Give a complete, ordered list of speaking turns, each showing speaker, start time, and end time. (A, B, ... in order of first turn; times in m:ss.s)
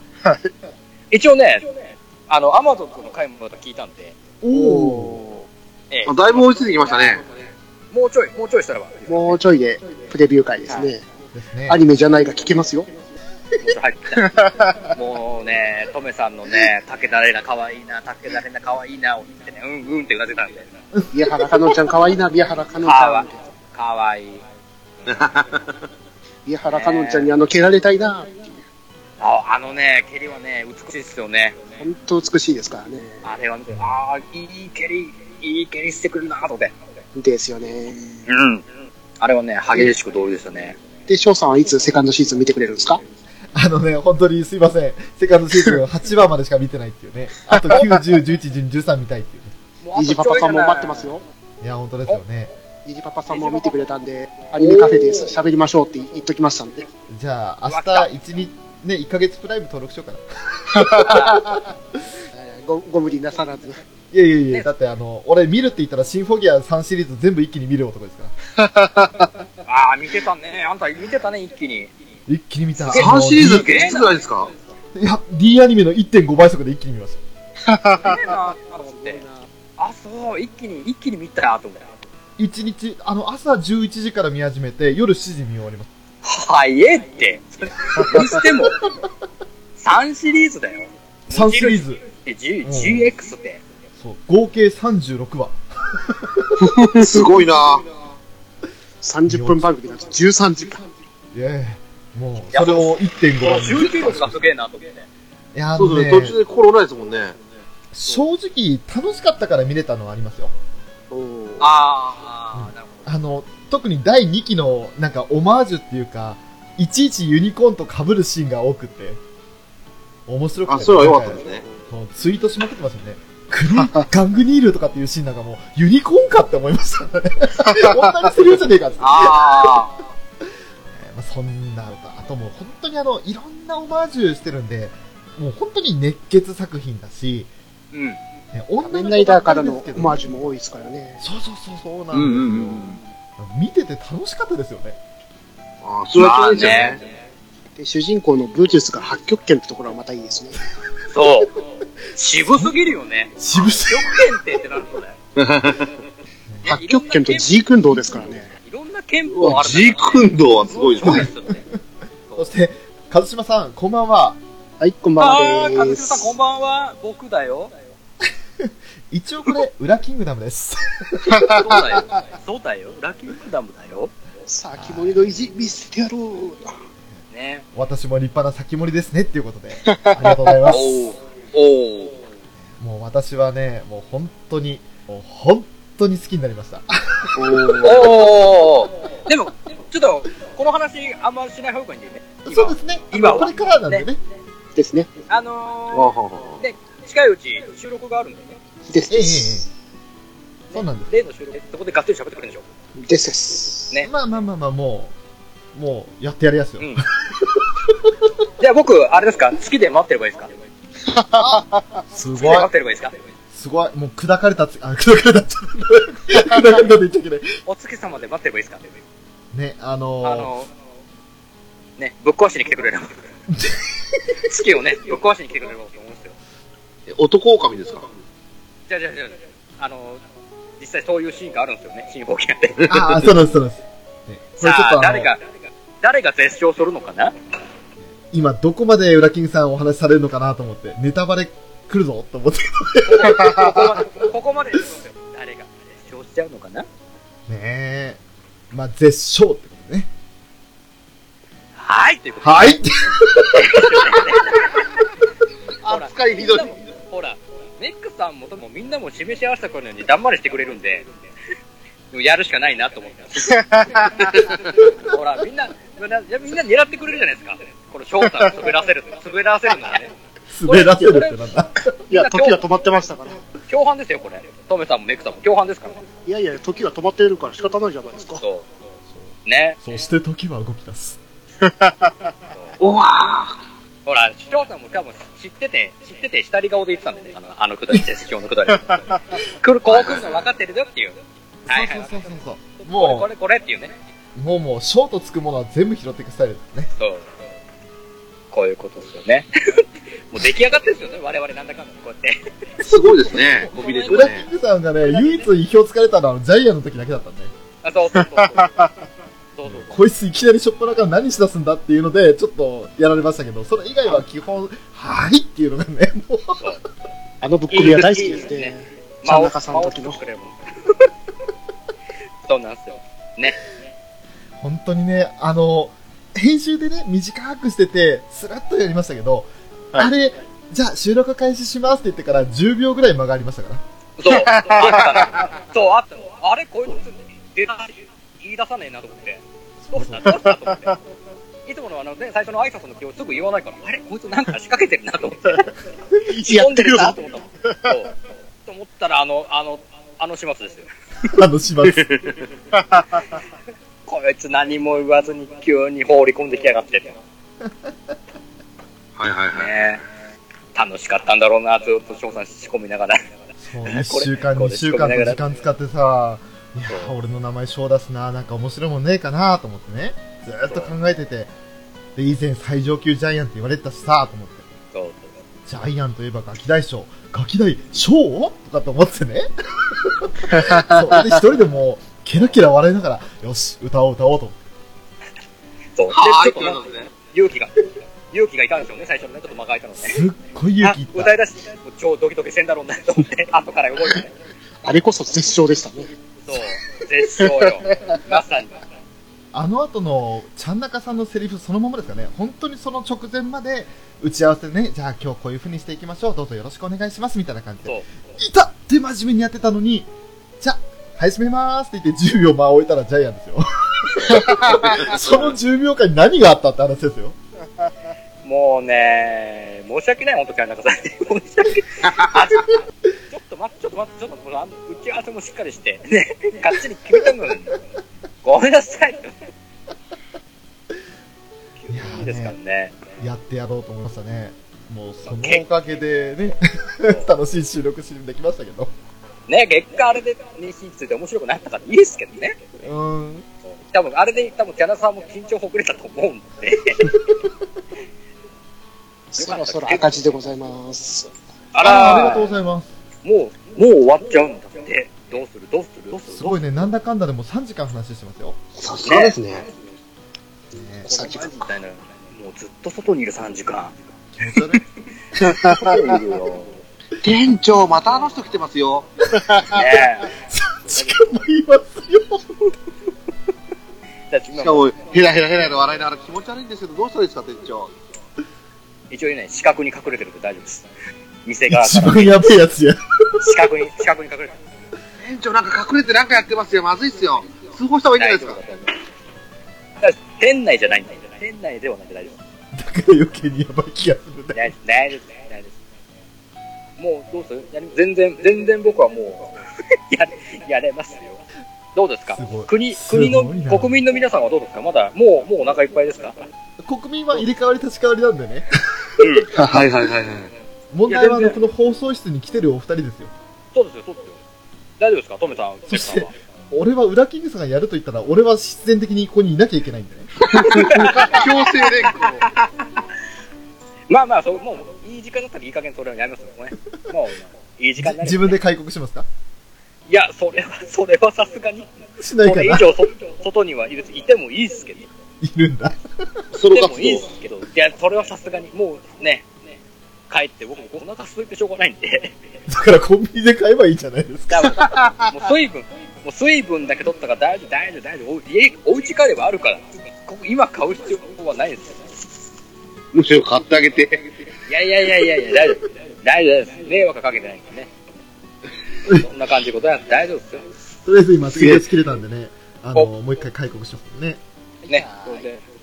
0:00.2-0:00.5 A
0:01.1-0:01.7 B
0:02.3-0:04.2 B
0:04.4-0:05.2 C
0:04.5-0:05.5 A
0:05.9-0:06.6 B
0:06.0-0:07.2 D
0:07.9-0:09.3 B
0:09.1-0:11.0 A
0:11.3-0:11.8 C
0:11.7-0:12.9 A
0:13.6-0:14.3 B
0:14.1-0:14.9 A
0:14.9-0:20.6 B
0:21.0-0:21.8 C
0:21.1-0:23.4 A
0:22.8-0:24.4 B
0:25.0-0:25.7 D
0:26.4-0:28.6 A
0:26.6-0:27.3 B
0:29.2-0:31.6 B
0:31.8-0:33.2 A
0:33.2-0:36.7 B
0:37.1-0:38.2 A
0:38.3-0:38.6 B
0:39.2-0:40.8 B
0:41.1-0:43.0 A
0:43.5-0:49.5 C
0:47.5-0:48.0 A
0:49.8-0:51.1 B
0:50.0-0:51.2 A
0:51.6-0:52.5 C
0:52.8-0:56.9 A
0:53.3-0:53.8 B
0:54.6-0:55.3 B
0:57.1-1:01.4 C
0:57.7-0:58.1 B
1:00.7-1:01.7 A
1:01.0-1:01.4 B
1:02.3-1:03.8 A
1:04.1-1:08.3 C
1:08.6-1:09.3 A
1:09.6-1:11.9 B
1:12.3-1:13.9 C
1:12.8-1:14.1 B
1:12.9-1:14.5 D
1:14.9-1:17.2 C
1:17.6-1:19.5 A
1:18.0-1:19.2 B
1:19.8-1:21.9 B
1:22.4-1:25.9 C
1:26.2-1:28.8 B
1:28.0-1:28.4 A
1:29.8-1:33.6 B
1:31.3-1:32.0 C
1:32.6-1:33.1 C
1:34.0-1:36.6 C
1:36.6-1:37.2 A
1:36.9-1:37.8 D
1:39.0-1:40.8 A
1:39.3-1:39.7 C
1:41.3-1:44.4 C
1:42.5-1:45.0 B
1:45.5-1:46.4 C
1:45.8-1:47.4 D
1:47.9-1:50.5 C
1:51.1-1:51.7 A
1:51.6-1:53.0 B
1:52.5-1:59.2 C
2:00.3-2:09.8 C
2:00.7-2:01.6 D
2:07.7-2:08.1 A
2:09.0-2:10.0 B
2:10.9-2:17.5 C
2:17.9-2:18.2 B
2:18.5-2:20.5 C
2:18.8-2:21.2 A
2:21.2-2:22.8 C
2:22.1-2:23.0 B
2:23.4-2:25.0 C
2:25.8-2:27.0 D
2:26.2-2:27.0 B
2:27.8-2:30.6 A
2:31.1-2:31.5 B
2:32.1-2:35.2 B
2:32.4-2:32.7 C
2:33.4-2:34.3 C
2:35.4-2:35.9 D
2:36.6-2:37.6 B
2:36.6-2:38.5 A
2:38.5-2:41.6 B
2:39.3-2:41.3 D
2:41.0-2:41.6 C
2:42.4-2:44.4 C
2:44.8-2:46.3 A
2:45.2-2:47.7 B
2:48.6-2:51.6 C
2:51.3-2:52.0 A
2:51.4-2:54.1 B
2:54.5-2:56.8 A
2:54.7-2:55.3 C
2:57.1-3:00.9 C
2:57.3-2:57.6 B
2:59.8-3:00.7 A
3:00.6-3:02.1 B
3:02.8-3:07.9 C
3:07.4-3:08.2 A
3:07.8-3:14.1 B
3:12.4-3:14.2 C
3:14.7-3:15.1 A
3:15.3-3:18.6 B
3:15.9-3:16.6 D
3:18.9-3:19.6 A
3:19.1-3:19.7 C
3:20.7-3:21.1 C
3:21.1-3:22.6 B
3:23.0-3:23.9 A
3:24.0-3:25.1 C
3:25.7-3:27.7 C
3:26.8-3:27.0 B
3:28.6-3:30.5 B
3:31.0-3:32.0 A
3:32.1-3:32.7 C
3:32.3-3:33.1 B
3:33.5-3:37.5 C
3:37.6-3:38.9 B
3:39.5-3:40.5 C
3:40.2-3:40.7 B
3:42.0-3:43.1 B
3:43.5-3:43.8 C
3:44.4-3:46.3 B
3:47.1-3:48.1 D
3:48.9-3:50.2 B
3:50.8-3:52.9 B
3:52.8-3:53.2 D
3:52.9-3:55.3 C
3:54.6-3:55.4 B
3:56.0-3:57.3 B
3:58.1-4:03.9 C
4:03.0-4:06.9 B
4:07.5-4:08.2 C
4:08.7-4:10.1 C
4:11.8-4:12.8 B
4:12.4-4:14.2 C
4:13.5-4:14.6 B
4:15.8-4:16.7 D
4:15.8-4:21.1 B
4:22.1-4:23.6 B
4:23.5-4:24.5 A
4:24.2-4:30.1 B
4:28.2-4:28.7 A
4:30.5-4:31.9 C
4:30.6-4:31.4 B
4:32.1-4:33.4 A
4:32.1-4:32.6 B
4:33.7-4:36.0 B
4:36.2-4:38.4 A
4:38.4-4:38.6 B
4:39.1-4:41.2 C
4:39.4-4:39.8 B
4:41.6-4:42.3 A
4:42.8-4:43.6 D
4:44.0-4:51.2 B
4:49.9-4:50.2 C
4:50.0-4:50.2 D
4:51.7-4:52.3 B
4:51.7-4:53.3 C
4:52.8-4:53.9 B
4:54.3-4:56.9 C
4:57.0-4:57.3 B
4:58.5-5:02.4 B
5:02.8-5:04.4 D
5:03.3-5:07.5 C
5:03.6-5:04.4 B
5:05.0-5:05.5 B
5:07.8-5:08.8 B
5:08.2-5:08.9 A
5:09.6-5:10.0 B
5:09.6-5:16.7 C
5:17.4-5:20.2 A
5:17.7-5:21.0 B
5:22.5-5:23.6 B
5:24.6-5:33.8 C
5:34.2-5:41.0 B
5:34.3-5:35.4 A
5:39.8-5:40.4 C
5:40.2-5:41.0 A
5:41.6-5:45.7 B
5:46.3-5:47.9 A
5:46.4-5:48.1 B
5:48.6-5:50.9 B
5:51.3-5:52.1 C
5:52.7-5:53.2 A
5:54.0-5:57.2 B
5:59.2-5:59.7 D
5:59.5-6:00.0 B
6:00.7-6:03.2 B
6:03.6-6:11.5 C
6:03.8-6:05.4 B
6:06.9-6:07.1 B
6:12.2-6:14.6 C
6:14.9-6:15.3 B
6:15.7-6:24.6 C
6:20.5-6:21.2 A
6:26.0-6:27.7 B
6:26.1-6:27.1 D
6:28.3-6:30.2 B
6:30.0-6:31.3 C
6:30.8-6:34.3 B
6:34.8-6:36.1 A
6:36.4-6:38.8 B
6:37.4-6:38.2 A
6:39.5-6:50.1 C
6:50.6-6:57.4 C
6:54.1-6:55.5 B
6:54.4-6:54.9 A
6:58.4-7:02.8 B
7:03.3-7:07.8 B
7:08.4-7:09.5 B
7:11.8-7:13.0 B
7:11.9-7:12.6 C
7:13.2-7:18.9 C
7:15.2-7:15.6 B
7:19.5-7:22.6 B
7:22.8-7:23.4 C
7:23.8-7:27.1 B
7:27.0-7:27.4 C
7:29.3-7:31.3 A
7:29.4-7:30.2 B
7:31.7-7:32.5 B
7:31.8-7:32.9 C
7:33.2-7:36.6 B
7:36.3-7:38.6 C
7:38.8-7:39.7 D
7:39.0-7:39.4 B
7:40.7-7:41.1 C
7:41.0-7:41.7 A
7:41.0-7:43.9 B
7:44.3-7:44.8 C
7:45.4-7:46.2 A
7:45.5-7:46.0 D
7:45.5-7:46.7 B
7:47.2-7:49.1 D
7:49.4-7:49.8 A
7:49.7-7:50.3 B
7:50.3-7:52.7 C
7:54.3-7:54.9 B
7:54.5-7:57.9 D
7:59.1-8:00.8 B
8:01.4-8:02.4 B
8:01.7-8:03.5 C
8:03.4-8:04.6 B
8:05.2-8:08.6 D
8:08.2-8:08.9 B
8:10.0-8:12.4 B
8:12.7-8:14.7 C
8:14.5-8:15.7 B
8:17.0-8:19.5 B
8:20.1-8:21.4 B
8:21.9-8:26.4 B
8:22.3-8:24.0 C
8:26.8-8:28.7 C
8:29.2-8:29.5 B
8:29.5-8:30.5 D
8:29.6-8:29.9 C
8:30.9-8:33.3 C
8:31.1-8:31.6 B
8:33.7-8:34.4 B
8:35.0-8:36.3 B
8:35.9-8:40.3 C
8:40.4-8:42.4 D
8:40.6-8:41.4 B
8:40.7-8:42.4 A
8:44.1-8:48.6 B
8:48.0-8:49.3 C
8:50.1-8:51.9 B
8:52.2-8:52.8 C
8:52.4-8:55.1 B
8:55.4-8:56.0 C
8:56.5-8:57.3 D
8:56.7-8:59.4 B
9:00.3-9:02.3 B
9:02.7-9:04.8 C
9:04.5-9:12.0 B
9:13.1-9:14.2 D
9:14.7-9:17.9 B
9:19.0-9:20.6 B
9:21.0-9:24.4 C
9:21.5-9:21.8 D
9:24.9-9:25.4 A
9:24.9-9:25.6 B